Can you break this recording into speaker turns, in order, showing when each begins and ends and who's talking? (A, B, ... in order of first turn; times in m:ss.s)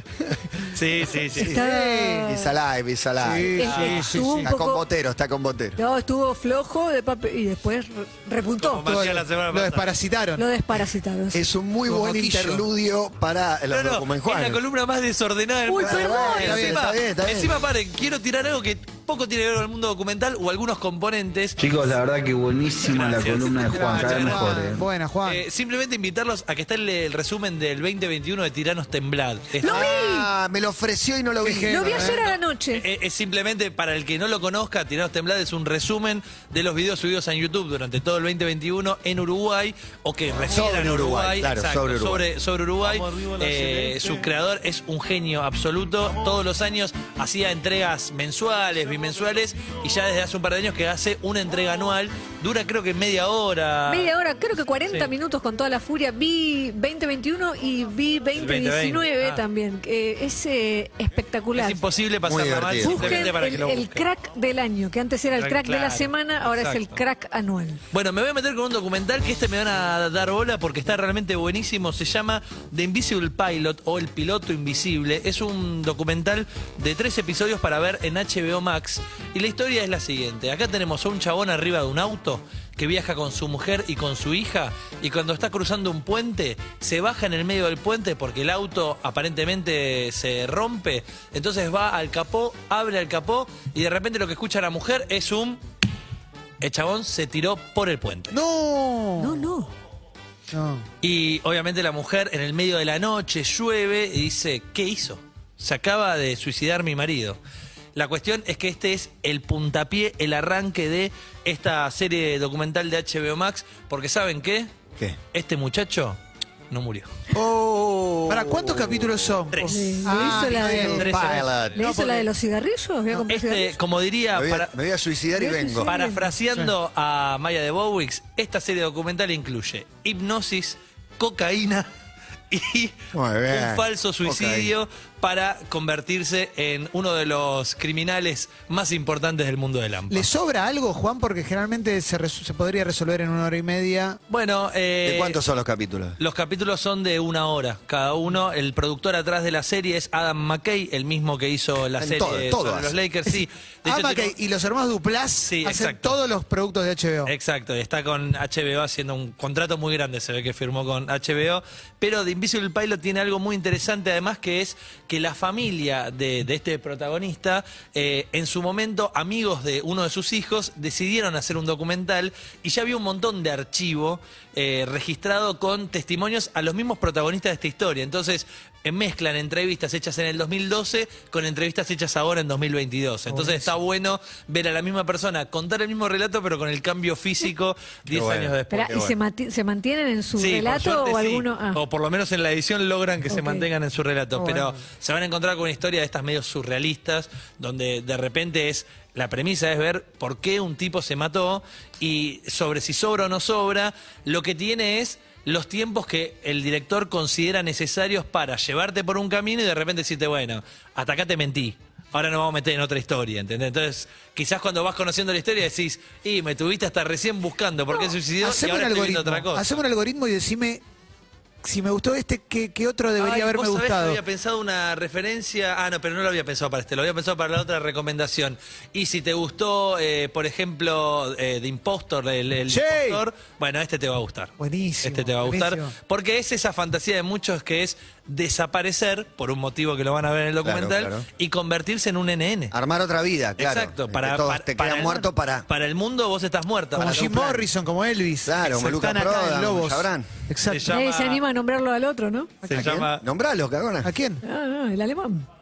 0:00.7-0:01.6 A
0:01.3-0:01.7 B
0:01.4-0:02.6 C
0:01.5-0:02.3 D
0:02.3-0:05.8 B
0:03.2-0:04.5 D
0:03.6-0:04.8 C
0:03.6-0:04.1 A
0:05.8-0:09.0 C
0:08.6-0:10.0 A
0:08.8-0:10.4 D
0:10.4-0:11.4 C
0:11.3-0:14.6 B
0:11.9-0:12.7 D
0:13.7-0:21.6 A
0:15.7-0:16.6 C
0:15.8-0:17.5 B
0:16.4-0:16.9 D
0:21.6-0:24.9 E
0:22.8-0:24.6 A
0:23.6-0:25.4 D
0:25.2-0:29.9 A
0:29.6-0:30.3 C
0:29.6-0:32.1 B
0:31.4-0:32.2 D
0:31.6-0:32.8 C
0:32.0-0:54.1 A
0:40.5-0:42.3 B
0:53.9-1:01.8 C
0:54.8-0:55.1 A
0:58.4-0:59.4 A
1:01.6-1:04.1 A
1:02.2-1:03.3 B
1:02.8-1:07.8 C
1:05.4-1:07.0 A
1:07.9-1:35.6 A
1:36.6-1:38.4 A
1:38.3-1:39.4 D
1:39.2-1:39.7 C
1:40.5-1:40.9 D
1:41.0-1:47.4 A
1:48.0-1:54.7 A
1:55.3-1:56.2 A
1:56.7-1:57.1 A
1:57.3-1:59.3 B
1:58.3-2:02.3 D
1:59.5-2:01.8 A
1:59.7-2:03.7 C
2:00.8-2:01.9 B
2:03.2-2:04.7 A
2:04.3-2:05.9 B
2:05.3-2:06.3 C
2:05.8-2:11.9 A
2:12.5-2:13.0 A
2:13.1-2:14.7 B
2:13.5-2:20.3 A
2:20.1-2:24.2 D
2:24.3-2:25.4 A
2:25.0-2:26.2 B
2:26.2-2:34.4 A
2:32.0-2:33.0 B
2:33.3-2:37.3 D
2:35.4-2:36.2 A
2:37.3-3:08.9 A
3:03.3-3:03.7 D
3:08.1-3:09.2 B
3:08.7-3:11.8 C
3:10.4-3:39.7 A
3:13.3-3:13.7 C
3:14.3-3:14.8 D
3:38.4-3:40.8 D
3:41.6-3:44.2 D
3:43.2-4:02.8 A
3:52.7-3:53.2 D
3:54.6-3:55.9 D
4:00.6-4:01.2 B
4:02.7-4:05.7 B
4:03.6-4:07.4 A
4:05.0-4:05.3 D
4:06.9-4:10.9 D
4:07.0-4:07.7 B
4:08.5-4:10.3 B
4:10.7-4:11.4 A
4:10.9-4:12.6 C
4:12.6-4:13.2 A
4:12.7-4:13.0 D
4:12.7-4:14.1 B
4:14.0-4:14.4 D
4:14.4-4:15.4 C